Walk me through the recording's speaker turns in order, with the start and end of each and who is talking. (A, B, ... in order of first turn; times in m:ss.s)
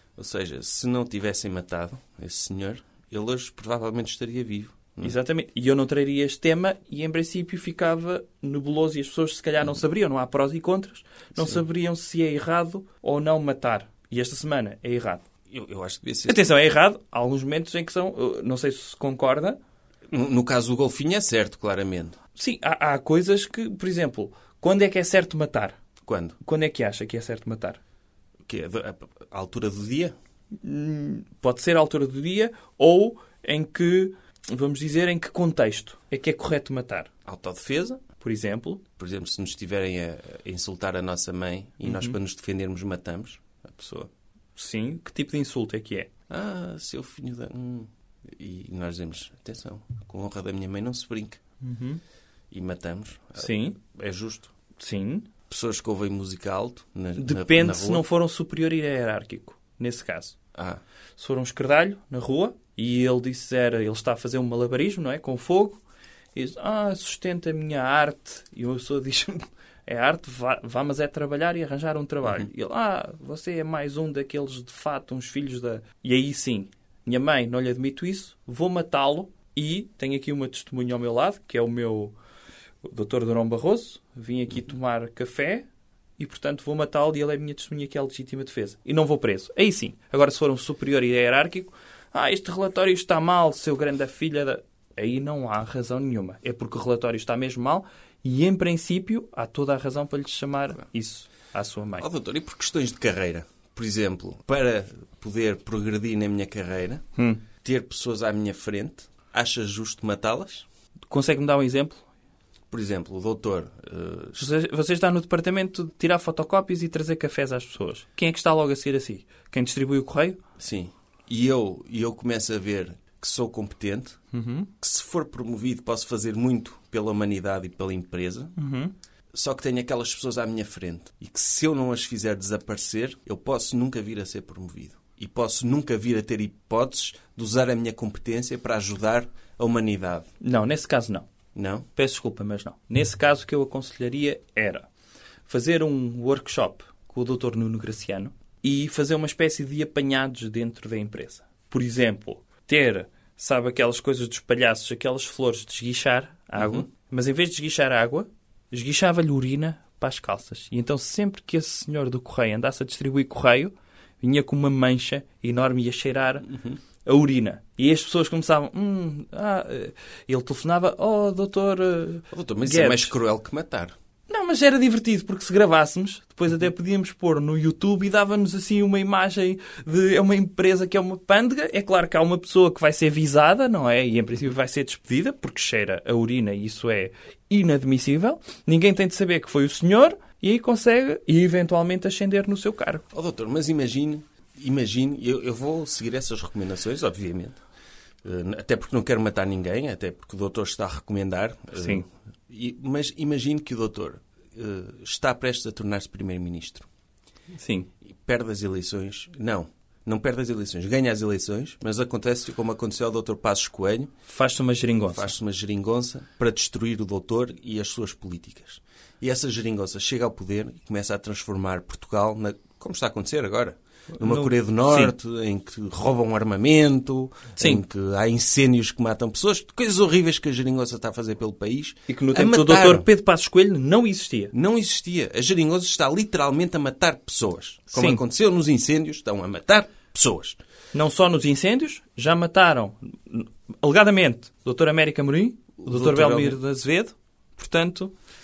0:00.2-0:05.1 A
0:05.0-0:15.2 B
0:15.5-0:16.4 A
0:16.3-0:19.6 B
0:20.1-0:22.2 A
0:22.4-0:25.8 B
0:26.0-0:26.4 A
0:26.4-0:27.8 B
0:28.4-0:30.1 A
0:30.6-0:37.1 B
0:37.2-0:38.0 A
0:38.2-0:38.8 B
0:39.0-0:44.1 A
0:41.8-0:42.2 B
0:44.6-0:46.1 B
0:46.3-0:51.4 A
0:51.6-0:52.0 B
0:52.5-0:54.5 A
0:53.4-0:53.8 B
0:54.8-0:55.3 B
0:55.5-0:58.0 A
0:57.2-1:00.4 B
1:00.5-1:00.8 A
1:01.2-1:05.8 B
1:06.3-1:22.1 B
1:22.8-1:25.7 B
1:26.2-1:42.0 B
1:42.0-1:47.0 A
1:47.2-1:47.4 B
1:47.6-1:50.7 A
1:51.1-1:52.0 B
1:52.7-1:54.5 A
1:54.4-2:00.4 B
2:00.6-2:04.2 A
2:04.3-2:04.7 B
2:04.8-2:08.5 A
2:08.6-2:08.9 B
2:09.3-2:20.3 A
2:20.4-2:21.3 B
2:21.5-2:21.8 A
2:22.0-2:24.9 B
2:25.5-2:46.5 B
2:36.6-2:36.8 A
2:46.4-2:46.8 A
2:47.0-2:53.1 B
2:52.3-2:53.9 A
2:54.3-3:13.0 B
3:13.1-3:17.6 A
3:18.2-3:26.9 A
3:21.7-3:22.0 B
3:27.6-3:27.9 B
3:28.0-3:34.1 A
3:34.3-3:35.3 B
3:35.1-3:53.0 A
3:44.2-3:45.1 B
3:52.1-3:54.5 B
3:54.5-4:00.6 A
3:57.9-3:58.2 B
4:00.9-4:08.1 B
4:05.8-4:06.6 A